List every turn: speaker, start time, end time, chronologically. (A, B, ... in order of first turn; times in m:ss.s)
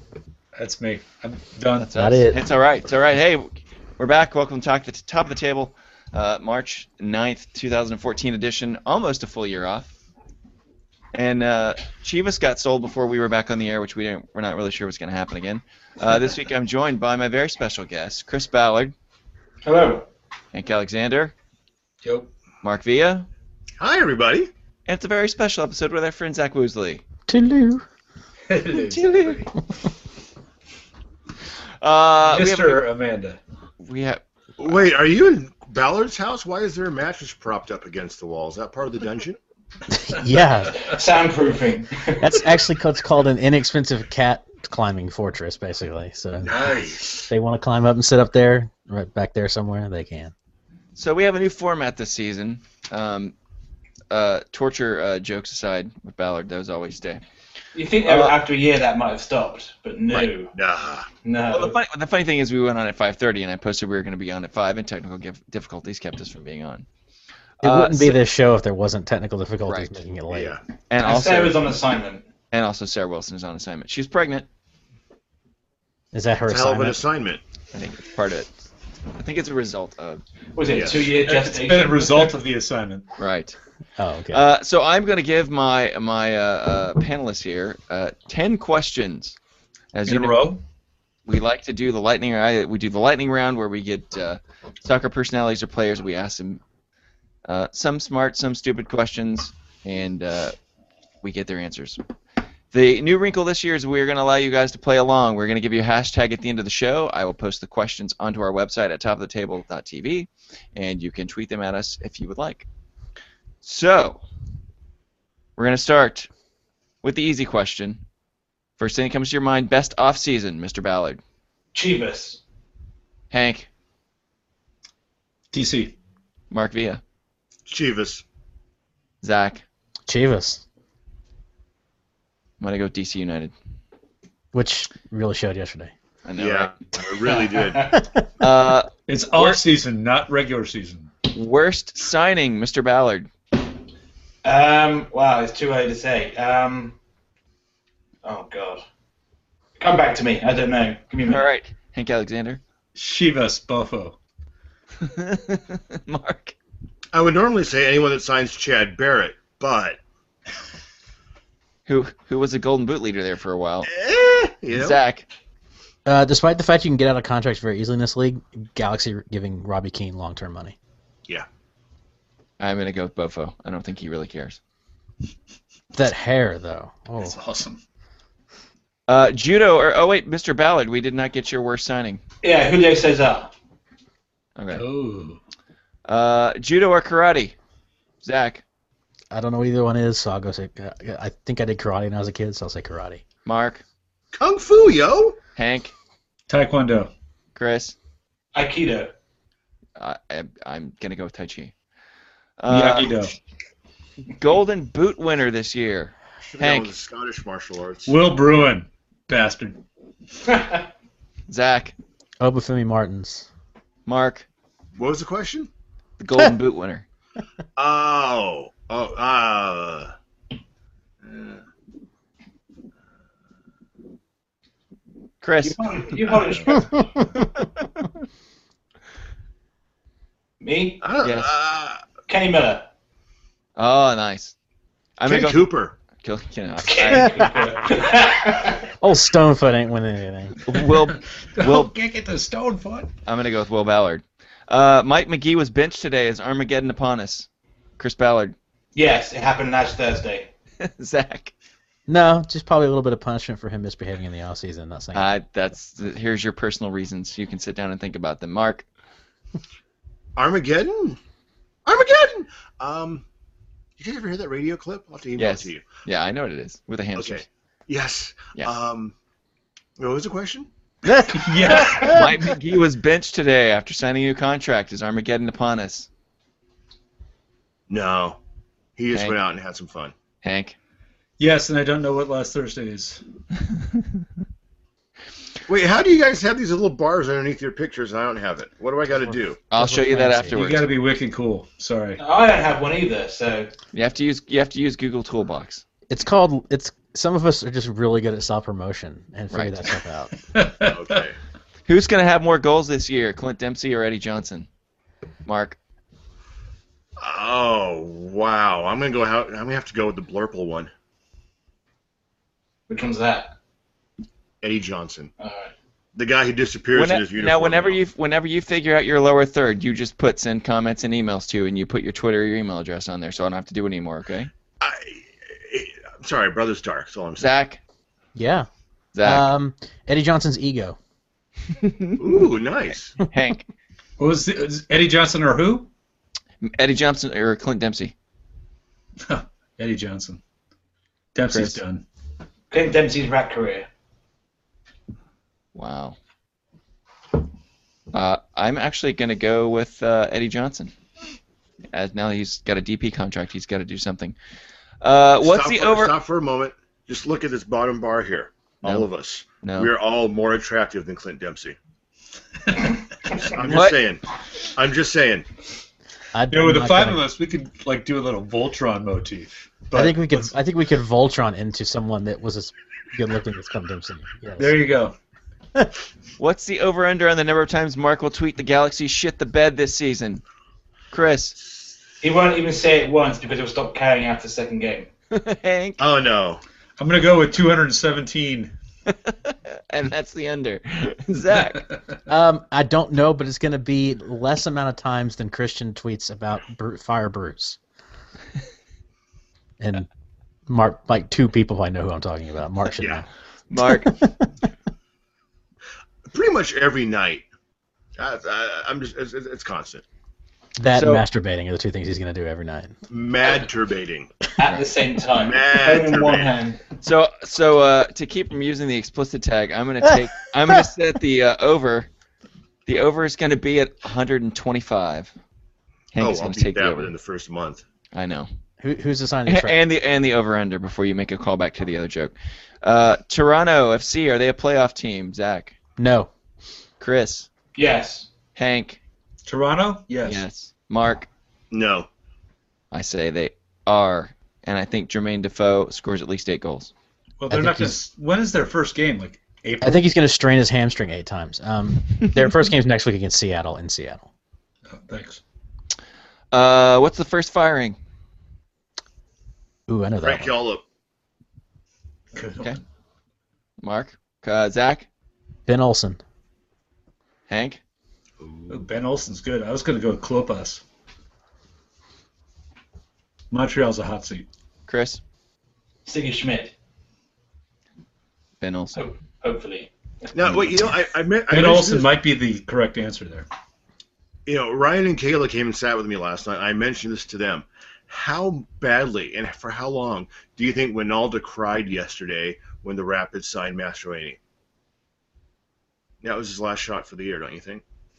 0:00.6-0:01.9 A
0:01.8-0:09.9 B
0:02.0-0:02.4 C
0:11.1-0:18.9 B
0:19.6-0:20.1 D
0:20.5-0:21.3 B
0:22.0-0:22.3 A
0:22.6-0:23.3 B
0:23.8-0:24.5 E
0:24.9-0:27.0 B
0:27.3-0:27.8 C
0:28.5-0:29.5 A
0:28.8-0:29.4 B
0:31.8-0:32.8 B
0:32.2-0:33.4 A
0:33.8-0:34.9 B
0:34.6-0:39.4 E
0:39.9-0:40.9 C
0:40.8-0:42.2 D
0:42.2-0:46.5 C
0:46.4-0:47.3 E
0:46.5-0:47.0 A
0:47.3-0:50.3 C
0:51.0-0:53.4 B
0:54.1-0:57.2 B
0:57.7-1:00.5 D
0:58.0-0:58.4 B
1:00.5-1:01.1 E
1:01.2-1:01.8 D
1:01.5-1:06.8 B
1:07.6-1:08.2 B
1:07.6-1:10.6 C
1:09.7-1:10.0 B
1:10.3-1:10.6 E
1:10.9-1:11.6 B
1:11.0-1:12.2 D
1:12.5-1:14.5 B
1:16.1-1:17.0 C
1:16.5-1:17.4 E
1:17.7-1:18.5 B
1:19.2-1:20.2 B
1:20.6-1:22.4 D
1:20.7-1:21.1 E
1:21.2-1:23.0 A
1:23.2-1:23.6 B
1:24.0-1:24.4 C
1:24.3-1:29.4 B
1:29.9-1:30.4 B
1:30.1-1:30.6 A
1:31.3-1:36.6 B
1:37.4-1:40.5 B
1:41.2-1:42.0 B
1:42.7-1:52.7 B
1:53.6-1:54.2 B
1:55.6-1:56.3 B
1:57.0-1:58.0 B
1:58.8-2:01.2 B
2:01.7-2:02.4 D
2:03.3-2:03.7 B
2:05.5-2:05.9 A
2:06.5-2:07.0 B
2:07.7-2:08.2 E
2:09.2-2:09.6 B
2:10.1-2:10.6 C
2:12.6-2:13.5 B
2:14.5-2:15.9 C
2:16.2-2:16.8 B
2:16.4-2:18.0 E
2:17.3-2:18.0 D
2:18.0-2:18.2 C
2:18.4-2:19.6 B
2:19.1-2:21.1 A
2:21.3-2:23.3 B
2:24.4-2:27.0 D
2:28.2-2:28.8 D
2:29.8-2:31.5 D
2:31.3-2:32.6 B
2:33.0-2:34.2 A
2:35.0-2:36.6 B
2:37.1-2:40.0 E
2:41.9-2:43.9 B
2:43.8-2:45.0 E
2:44.7-2:45.3 B
2:46.1-2:50.8 C
2:52.6-2:54.6 B
2:55.9-2:57.4 C
2:57.2-2:57.8 A
2:59.1-3:02.2 B
3:02.4-3:03.5 D
3:04.6-3:04.9 B
3:04.7-3:05.4 A
3:06.1-3:07.6 B
3:08.2-3:08.6 B
3:09.3-3:13.2 C
3:13.4-3:13.8 B
3:14.3-3:15.4 E
3:15.6-3:15.9 B
3:16.5-3:17.1 A
3:17.6-3:18.0 B
3:18.5-3:19.1 D
3:20.0-3:21.7 B
3:22.6-3:23.3 B
3:22.7-3:23.3 A
3:24.3-3:26.9 B
3:26.5-3:28.2 E
3:28.1-3:29.8 A
3:30.5-3:30.8 D
3:31.5-3:32.0 B
3:32.4-3:33.5 C
3:34.1-3:34.5 B
3:35.0-3:35.7 E
3:36.2-3:37.0 B
3:37.8-3:40.1 E
3:41.2-3:41.6 E
3:45.4-3:46.8 B
3:45.6-3:47.1 D
3:46.3-3:46.6 E
3:50.6-3:51.0 D
3:51.0-3:52.0 E
3:51.2-3:51.6 B
3:52.3-3:52.9 D
3:53.8-3:54.5 B
3:55.2-3:57.5 B
3:55.3-3:56.0 E
3:56.8-3:58.9 D
3:57.1-3:57.5 C
3:59.0-4:00.6 C
4:00.6-4:01.9 B
4:00.7-4:03.1 A
4:03.3-4:07.5 B
4:08.0-4:08.6 B
4:09.0-4:10.5 D
4:10.8-4:11.5 B
4:12.1-4:15.3 C
4:15.1-4:18.8 B
4:20.4-4:21.2 E
4:21.8-4:23.2 E
4:24.0-4:25.8 E
4:25.4-4:27.4 B
4:27.2-4:29.1 E
4:30.0-4:31.7 E
4:31.1-4:32.4 C
4:31.3-4:32.2 A
4:31.7-4:36.1 B
4:37.9-4:38.4 E
4:39.0-4:40.1 E
4:39.1-4:39.4 B
4:40.4-4:40.8 B
4:41.4-4:43.2 A
4:45.7-4:49.6 E
4:49.1-4:50.5 C
4:49.7-4:50.9 B
4:50.5-4:52.2 A
4:52.2-4:53.7 D
4:53.9-4:55.8 B
4:56.1-5:00.3 C
4:59.5-4:59.9 B
5:00.4-5:01.0 A
5:00.8-5:01.4 E
5:01.9-5:04.7 B
5:05.4-5:05.8 B
5:07.2-5:10.9 E
5:12.9-5:13.5 D
5:14.6-5:15.3 E
5:15.4-5:15.7 D
5:16.2-5:18.0 E
5:16.9-5:24.5 B
5:24.8-5:27.5 E
5:27.4-5:27.8 B
5:28.4-5:28.7 C
5:29.1-5:29.5 B
5:29.2-5:31.0 C
5:31.8-5:32.2 B
5:32.2-5:33.2 E
5:33.2-5:33.7 B
5:34.2-5:35.9 A
5:36.6-5:38.1 B
5:39.2-5:40.4 A
5:41.4-5:42.0 A
5:41.5-5:41.8 B
5:42.7-5:43.9 D
5:45.8-5:46.2 B
5:48.1-5:50.9 B
5:51.9-5:54.4 B
5:55.0-5:56.2 B
5:55.4-6:01.8 E
5:59.6-5:59.9 B
6:03.3-6:05.5 E
6:03.6-6:04.0 B
6:06.3-6:07.3 C
6:06.5-6:10.5 A
6:09.9-6:14.8 C
6:14.6-6:15.2 A
6:16.4-6:20.4 B
6:21.1-6:21.6 B
6:22.2-6:25.1 D
6:25.3-6:26.0 B
6:26.0-6:26.6 E
6:27.0-6:28.7 A
6:29.3-6:31.9 B
6:32.3-6:37.8 C
6:39.8-6:40.1 C
6:40.7-6:44.5 C
6:43.0-6:43.2 E
6:43.7-6:44.1 B
6:46.3-6:47.4 E
6:48.2-6:50.0 E
6:50.8-6:53.0 C
6:50.9-6:51.2 B
6:53.1-6:54.3 E
6:54.6-6:56.8 D
6:55.4-6:56.5 E
6:57.0-7:02.1 B
7:02.9-7:05.3 B
7:06.1-7:07.1 B
7:06.2-7:07.8 E
7:08.1-7:08.5 B
7:08.8-7:09.8 C
7:09.5-7:15.8 B
7:16.0-7:16.3 C
7:17.0-7:17.5 B
7:17.8-7:18.3 D
7:18.6-7:19.0 B
7:19.5-7:20.4 A
7:20.2-7:21.3 B
7:21.7-7:22.1 E
7:22.9-7:26.9 B
7:27.4-7:30.0 A
7:27.5-7:28.0 C
7:29.8-7:34.3 C
7:34.9-7:35.4 A
7:36.5-7:38.0 B
7:39.9-7:40.6 C
7:40.2-7:40.8 E
7:42.3-7:42.8 A
7:43.8-7:45.1 B
7:45.7-7:46.2 C
7:47.5-7:47.8 B
7:48.4-7:48.9 E
7:48.7-7:50.8 A
7:53.5-7:54.5 A
7:54.9-7:55.2 B
7:56.1-7:56.7 D
7:58.6-7:59.0 B
7:59.0-7:59.9 D
8:00.3-8:02.2 E
8:01.5-8:03.5 A
8:04.5-8:14.4 E
8:16.2-8:17.8 E